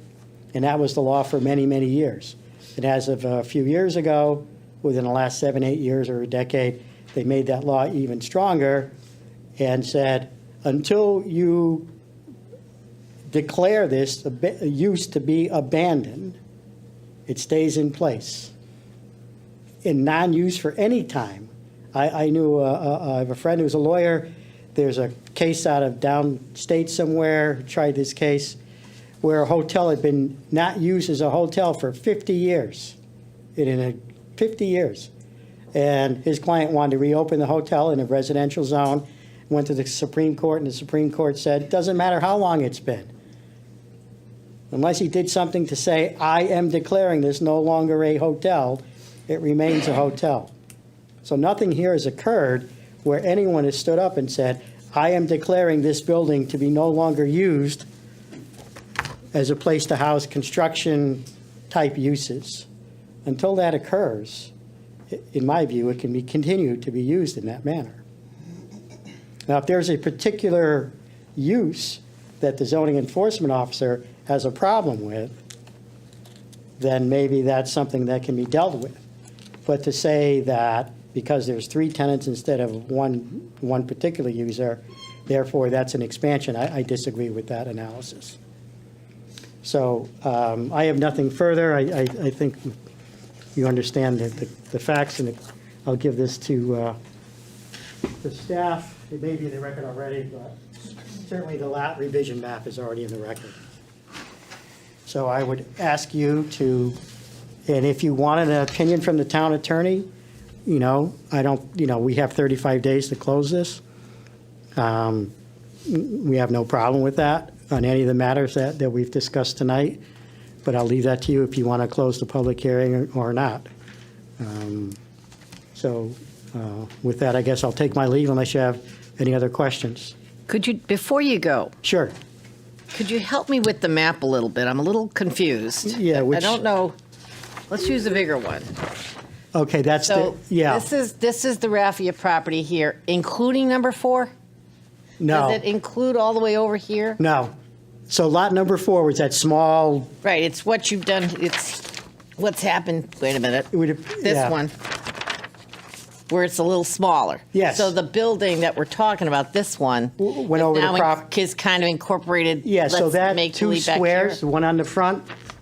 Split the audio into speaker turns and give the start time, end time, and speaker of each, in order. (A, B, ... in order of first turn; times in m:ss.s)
0:00.5-0:08.9 A
0:09.6-0:11.9 A
0:13.3-0:16.4 A
0:17.3-0:18.5 A
0:19.8-0:28.6 A
0:29.2-0:33.0 A
0:33.6-0:35.1 A
0:35.7-0:43.1 A
0:44.7-0:50.5 A
0:51.2-0:57.8 A
0:59.3-1:02.7 A
1:03.2-1:04.5 A
1:05.1-1:08.0 A
1:09.5-1:15.4 A
1:16.8-1:19.0 A
1:19.6-1:28.4 A
1:29.6-1:32.7 A
1:33.6-1:37.0 A
1:38.2-1:40.6 A
1:41.2-1:43.6 A
1:45.0-1:47.0 A
1:47.7-1:50.1 A
1:50.6-1:53.8 A
1:54.8-1:55.3 A
1:55.8-2:00.0 A
2:00.6-2:03.7 A
2:04.4-2:05.0 A
2:05.7-2:10.1 A
2:10.5-2:11.7 B
2:11.8-2:12.1 A
2:12.9-2:16.9 B
2:15.8-2:16.6 A
2:17.7-2:18.7 B
2:19.5-2:20.9 A
2:20.0-2:24.3 B
2:25.2-2:25.6 A
2:25.3-2:27.2 B
2:27.2-2:27.5 A
2:28.1-2:30.1 A
2:30.2-2:33.7 B
2:33.7-2:34.6 A
2:34.2-2:34.7 B
2:36.3-2:44.4 B
2:37.5-2:37.9 A
2:40.2-2:41.2 A
2:42.6-2:45.2 A